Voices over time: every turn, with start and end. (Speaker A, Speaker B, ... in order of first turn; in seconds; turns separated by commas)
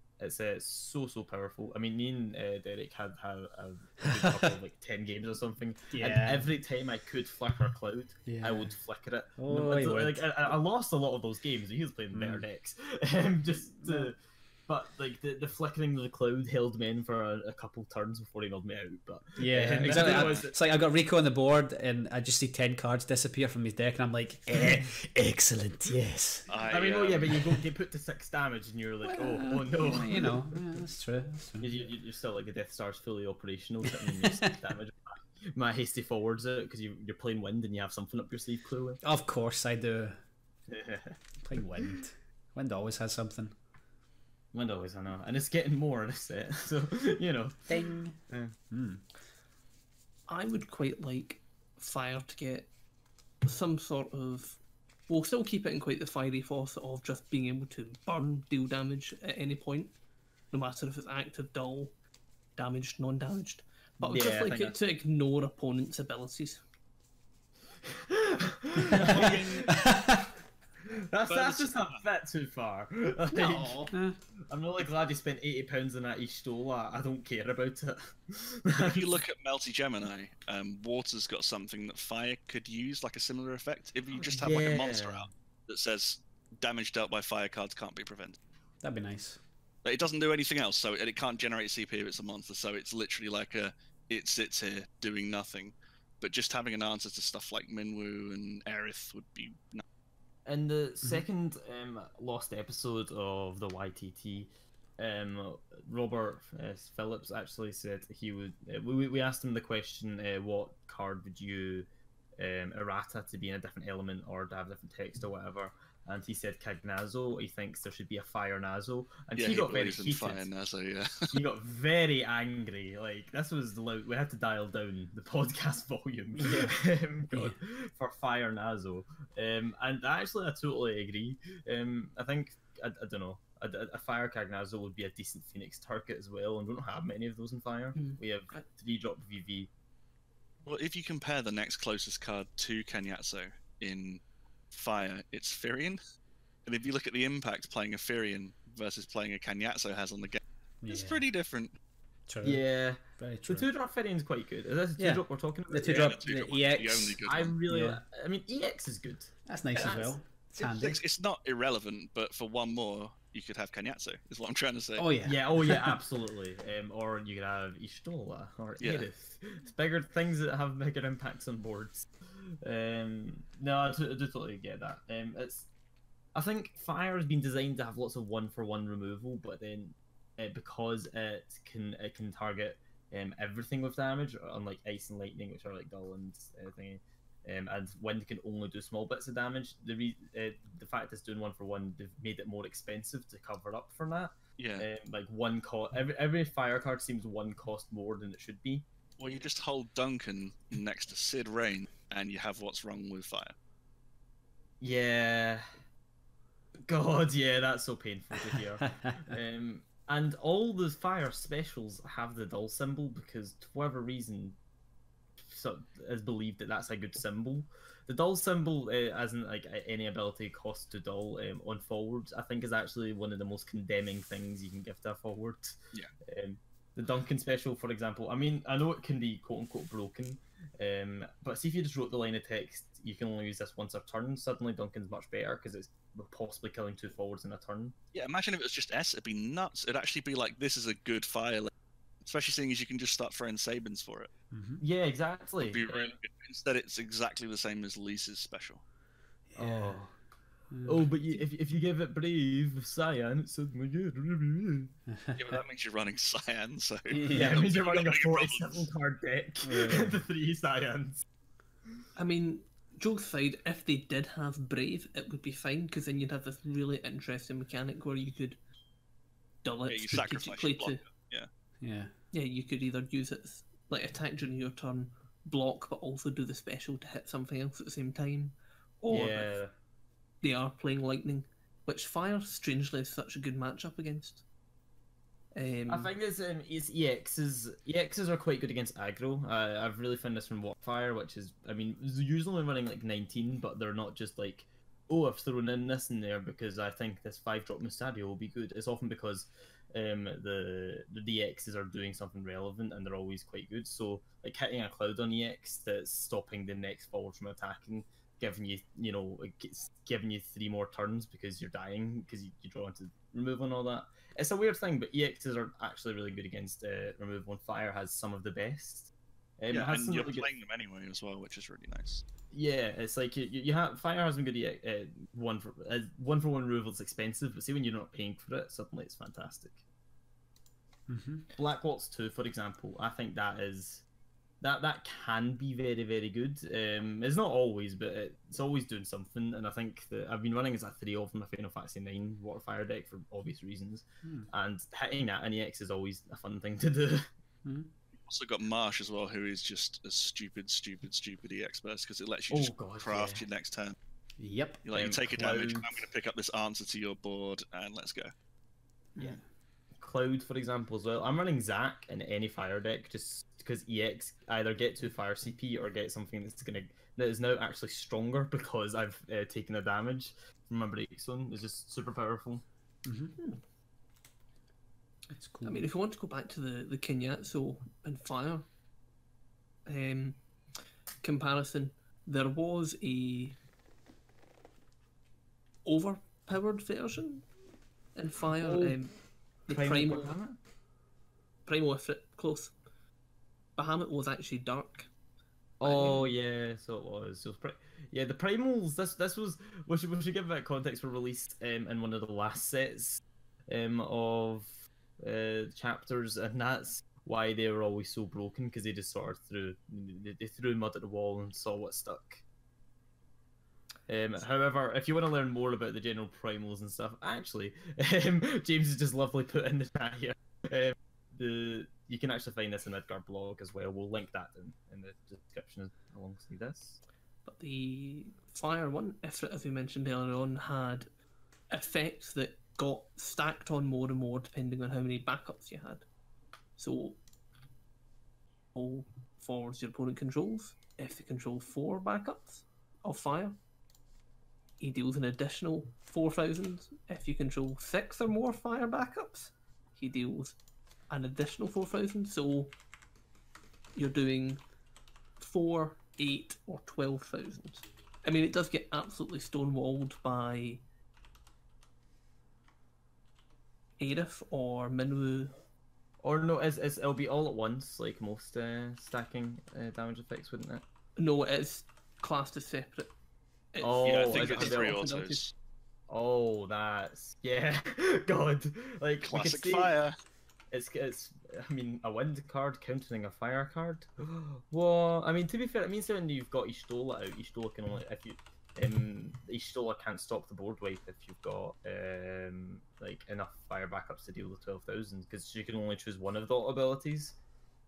Speaker A: 0.2-20.5, Speaker B: 4.0-4.5, Speaker B: 5.9-6.5, Speaker B: 8.2-8.7, Speaker B: 9.4-10.3, Speaker B: 12.1-12.4, Speaker B: 19.4-26.5, Speaker C: 26.5-27.3, Speaker A: 26.7-30.4, Speaker B: 29.1-31.7, Speaker A: 31.6-39.0, Speaker B: 34.0-34.5, Speaker B: 39.0-40.2, Speaker A: 40.7-41.2, Speaker B: 41.4-43.5, Speaker A: 44.5-48.5, Speaker B: 47.7-48.2, Speaker B: 48.7-49.0, Speaker D: 50.3-52.7, Speaker D: 53.4-59.9, Speaker D: 60.5-61.9, Speaker D: 62.5-66.6, Speaker A: 64.0-64.8, Speaker A: 67.9-69.9, Speaker B: 68.9-70.3, Speaker C: 69.0-69.7, Speaker A: 70.9-73.8, Speaker C: 71.3-72.0, Speaker D: 73.3-73.9, Speaker B: 73.9-74.2, Speaker A: 74.5-79.2, Speaker C: 78.8-88.4, Speaker A: 84.3-85.3, Speaker B: 88.8-89.4, Speaker C: 89.8-99.8, Speaker A: 100.5-120.5, Speaker C: 119.3-121.3, Speaker A: 121.3-139.7, Speaker B: 126.3-126.8, Speaker B: 127.3-127.6, Speaker D: 137.9-138.6, Speaker C: 140.6-146.0, Speaker C: 146.6-151.8, Speaker B: 150.8-151.2, Speaker B: 152.3-153.7, Speaker A: 152.4-156.2, Speaker B: 155.0-157.2, Speaker C: 155.8-157.6, Speaker A: 157.2-160.2, Speaker B: 157.7-158.0, Speaker B: 159.5-161.0, Speaker C: 160.6-165.1, Speaker B: 165.0-165.9, Speaker A: 165.2-175.7, Speaker C: 168.8-169.0, Speaker A: 176.3-198.9, Speaker C: 194.6-194.9, Speaker C: 199.2-203.5, Speaker A: 204.8-205.7, Speaker A: 206.8-214.6, Speaker B: 208.9-209.2, Speaker A: 215.4-237.9, Speaker C: 238.1-244.3, Speaker B: 244.5-244.8, Speaker A: 244.8-246.1, Speaker C: 245.6-248.8, Speaker B: 249.5-250.0, Speaker A: 249.6-250.1, Speaker B: 250.7-251.1, Speaker A: 250.8-254.9, Speaker B: 255.1-255.4, Speaker C: 255.3-258.9, Speaker B: 257.1-257.6, Speaker A: 257.1-261.2, Speaker B: 259.6-260.2, Speaker D: 262.1-268.6, Speaker D: 269.6-271.0, Speaker C: 269.9-271.5, Speaker B: 271.8-272.1, Speaker D: 272.3-279.5, Speaker A: 279.1-279.7, Speaker D: 280.4-284.4, Speaker D: 285.5-286.1, Speaker A: 285.9-320.5, Speaker C: 319.7-322.2, Speaker A: 322.5-329.8, Speaker B: 331.1-331.5, Speaker A: 331.5-334.0, Speaker A: 334.6-347.3, Speaker B: 344.2-344.5, Speaker B: 347.6-347.9, Speaker C: 348.2-353.9, Speaker A: 352.5-353.4, Speaker B: 354.4-354.8, Speaker C: 354.8-358.3, Speaker A: 354.9-356.0, Speaker A: 360.0-372.6, Speaker B: 373.0-373.4, Speaker B: 375.3-375.9, Speaker D: 375.6-378.7, Speaker D: 379.9-380.4, Speaker D: 381.2-383.6, Speaker D: 385.8-387.5, Speaker D: 388.1-389.1, Speaker A: 388.6-389.0, Speaker D: 389.6-390.3, Speaker A: 389.7-390.6, Speaker D: 391.6-392.7, Speaker D: 393.8-395.1, Speaker A: 395.8-412.4, Speaker D: 395.8-396.3, Speaker A: 414.1-427.0, Speaker D: 427.4-431.1, Speaker D: 431.7-436.1, Speaker D: 436.8-437.2, Speaker D: 438.7-443.6, Speaker D: 444.8-450.6, Speaker D: 451.1-452.7, Speaker D: 453.9-454.6, Speaker D: 455.4-460.8, Speaker D: 464.0-465.5, Speaker A: 466.2-470.8, Speaker D: 471.2-473.1, Speaker D: 473.7-475.4, Speaker A: 473.8-475.1, Speaker C: 474.0-475.5, Speaker A: 476.1-479.9, Speaker C: 479.2-480.1, Speaker A: 480.7-497.4